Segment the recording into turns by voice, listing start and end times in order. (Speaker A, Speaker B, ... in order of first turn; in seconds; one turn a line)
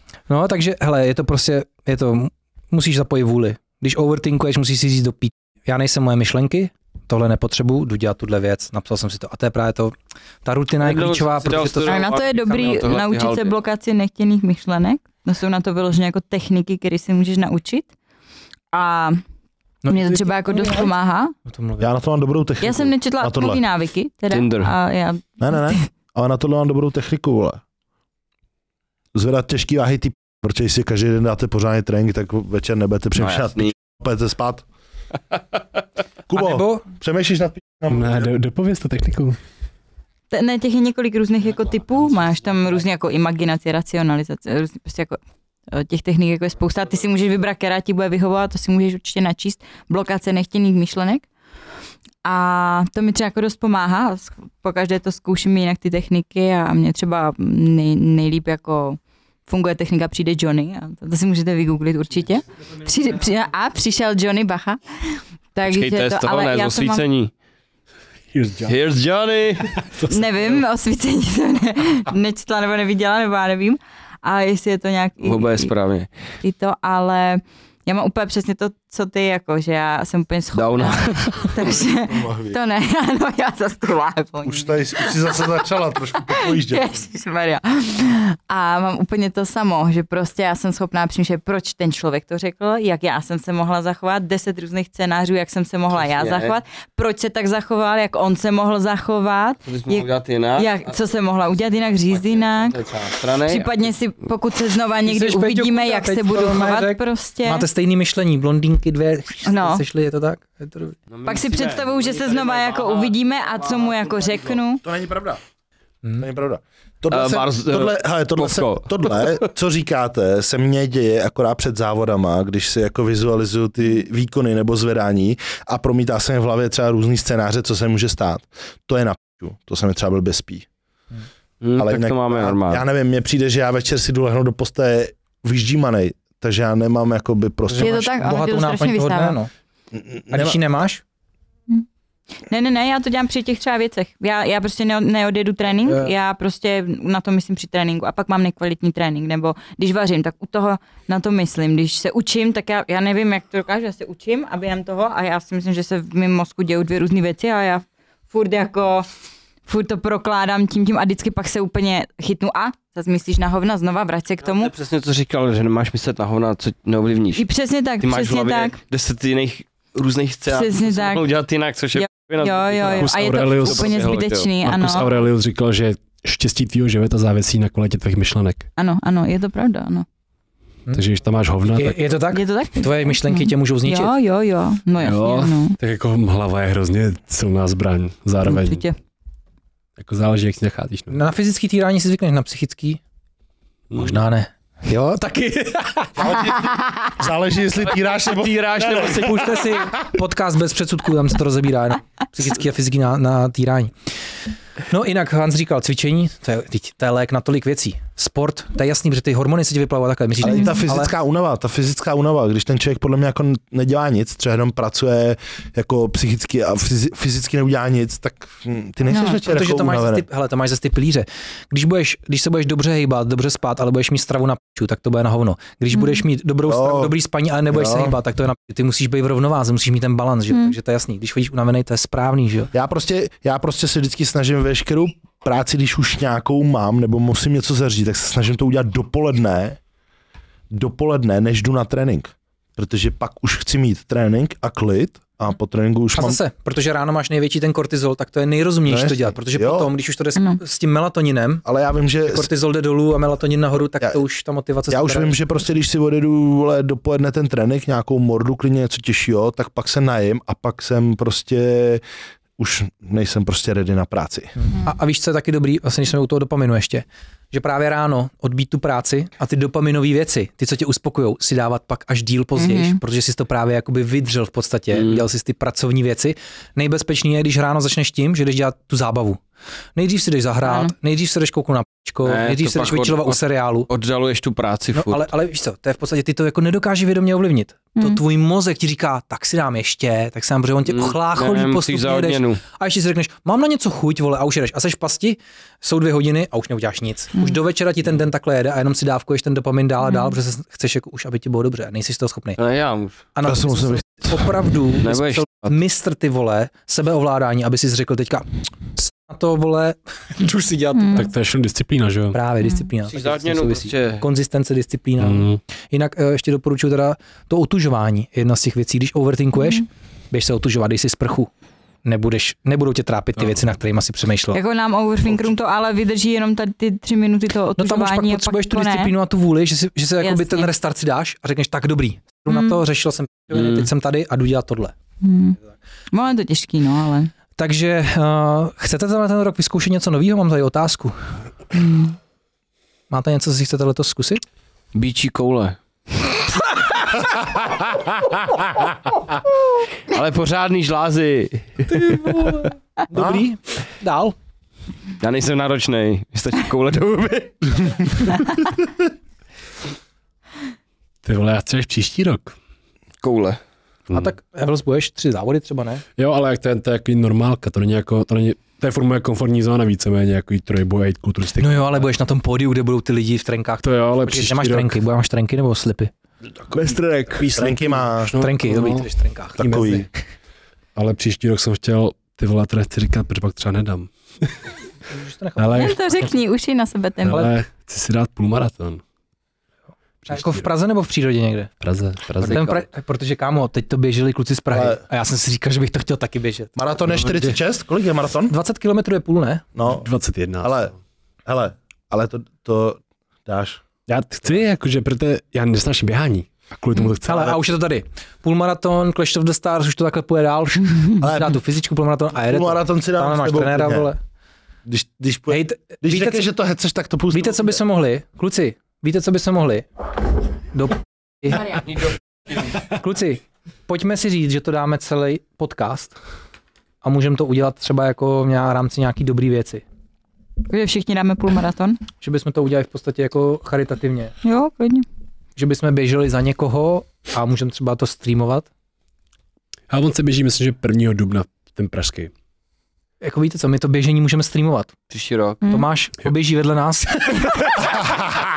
Speaker A: 0.3-12.1
Speaker B: 10.8-13.6
Speaker C: 11.8-17.9
Speaker C: 18.7-19.2
Speaker A: 19.8-20.9
Speaker C: 19.9-21.4
Speaker A: 21.4-21.9
Speaker D: 21.8-23.6
Speaker C: 22.6-25.8
Speaker B: 24.3-24.7
Speaker D: 25.4-27.6
Speaker D: 29.1-34.6
Speaker B: 33.2-33.7
Speaker D: 36.3-38.3
Speaker A: 36.3-36.9
Speaker E: 37.9-39.4
Speaker C: 40.3-45.2
Speaker C: 45.7-51.3
Speaker C: 52.2-67.0
Speaker B: 65.6-67.3
Speaker E: 68.3-68.8
Speaker B: 68.7-69.7
Speaker E: 69.8-70.6
Speaker C: 70.1-75.7
Speaker B: 75.2-76.1
Speaker C: 76.4-85.4
Speaker B: 80.5-81.5
Speaker D: 81.6-82.6
Speaker D: 84.4-87.0
Speaker C: 86.3-102.8
Speaker B: 96.0-96.5
Speaker B: 99.7-100.9
Speaker B: 102.1-103.9
Speaker C: 103.4-107.7
Speaker A: 105.0-111.0
Speaker C: 109.4-109.8
Speaker B: 111.1-114.6
Speaker C: 111.2-114.8
Speaker D: 114.8-115.4
Speaker D: 116.2-130.7
Speaker B: 117.1-119.4
Speaker B: 131.6-132.8
Speaker D: 131.8-138.0
Speaker A: 137.7-139.5
Speaker C: 137.8-139.4
Speaker D: 139.9-140.6
Speaker A: 140.3-141.0
Speaker C: 142.5-159.1
Speaker A: 145.8-146.1
Speaker C: 159.6-164.7
Speaker B: 164.4-167.4
Speaker C: 167.3-168.8
Speaker B: 168.0-174.5
Speaker C: 170.5-171.2
Speaker C: 171.9-175.1
Speaker E: 172.9-178.7
Speaker C: 178.8-180.1
Speaker E: 180.9-182.1
Speaker A: 181.8-184.1
Speaker C: 182.3-185.8
Speaker E: 185.0-188.8
Speaker C: 188.4-188.9
Speaker E: 190.0-191.2
Speaker A: 191.1-193.0
Speaker E: 193.9-194.2
Speaker A: 193.9-196.3
Speaker D: 196.2-199.4
Speaker B: 198.0-199.8
Speaker A: 199.1-203.9
Speaker A: 204.9-211.1
Speaker D: 210.4-220.2
Speaker C: 219.1-219.4
Speaker A: 219.4-232.7
Speaker C: 225.9-226.2
Speaker D: 226.6-227.1
Speaker D: 227.7-228.2
Speaker D: 232.7-239.8
Speaker D: 240.7-246.4
Speaker A: 246.2-251.6
Speaker D: 248.8-249.9
Speaker D: 251.6-252.5
Speaker A: 252.2-255.4
Speaker D: 254.9-262.0
Speaker D: 262.6-264.5
Speaker A: 264.6-279.4
Speaker C: 272.6-273.0
Speaker B: 274.9-275.2
Speaker A: 279.9-283.9
Speaker C: 280.6-280.9
Speaker B: 282.2-285.3
Speaker A: 284.9-302.6
Speaker C: 287.9-288.2
Speaker B: 290.9-292.6
Speaker C: 300.0-300.3
Speaker B: 302.6-303.2
Speaker A: 303.3-311.3
Speaker D: 303.4-304.5
Speaker B: 305.0-305.7
Speaker C: 310.9-311.3
Speaker E: 311.1-312.4
Speaker A: 312.3-321.5
Speaker B: 313.1-314.2
Speaker E: 315.2-315.6
Speaker A: 322.0-324.6
Speaker C: 324.5-329.1
Speaker A: 327.8-334.9
Speaker C: 330.2-330.7
Speaker C: 332.5-332.8
Speaker B: 333.5-333.9
Speaker C: 335.2-335.6
Speaker C: 336.1-337.3
Speaker A: 337.6-341.2
Speaker C: 341.7-342.1
Speaker A: 343.1-344.4
Speaker B: 344.9-345.8
Speaker B: 350.1-352.5
Speaker A: 351.9-354.3
Speaker D: 353.1-353.4
Speaker B: 355.2-358.3
Speaker E: 361.2-362.6
Speaker B: 363.2-363.6
Speaker A: 364.1-366.0
Speaker E: 366.2-372.1
Speaker A: 371.6-376.1
Speaker E: 373.8-375.0
Speaker D: 376.7-378.3
Speaker E: 376.7-380.0
Speaker A: 378.4-380.0
Speaker D: 379.6-380.1
Speaker E: 380.9-384.5
Speaker A: 385.1-386.3
Speaker E: 385.6-386.0
Speaker C: 385.7-387.5
Speaker E: 387.2-389.0
Speaker E: 390.2-390.7
Speaker A: 390.3-391.7
Speaker E: 391.8-392.8
Speaker A: 392.4-396.7
Speaker D: 394.7-395.0
Speaker D: 396.8-398.5
Speaker A: 397.2-397.5
Speaker A: 398.5-399.6
Speaker D: 399.7-400.1
Speaker E: 400.0-400.9
Speaker D: 400.6-400.9
Speaker D: 401.4-403.8
Speaker E: 404.1-407.6
Speaker A: 407.2-414.2
Speaker D: 411.2-411.6
Speaker D: 412.4-414.1
Speaker D: 414.8-417.8
Speaker A: 415.5-416.4
Speaker A: 417.3-419.9
Speaker A: 420.7-422.1
Speaker A: 422.6-426.1
Speaker A: 427.0-429.8
Speaker C: 430.7-432.0
Speaker A: 432.2-434.3
Speaker C: 434.4-435.1
Speaker A: 435.6-438.7
Speaker E: 439.9-442.3
Speaker A: 443.2-444.9
Speaker B: 445.1-445.6
Speaker C: 445.6-445.9
Speaker A: 445.7-448.0
Speaker D: 448.1-448.5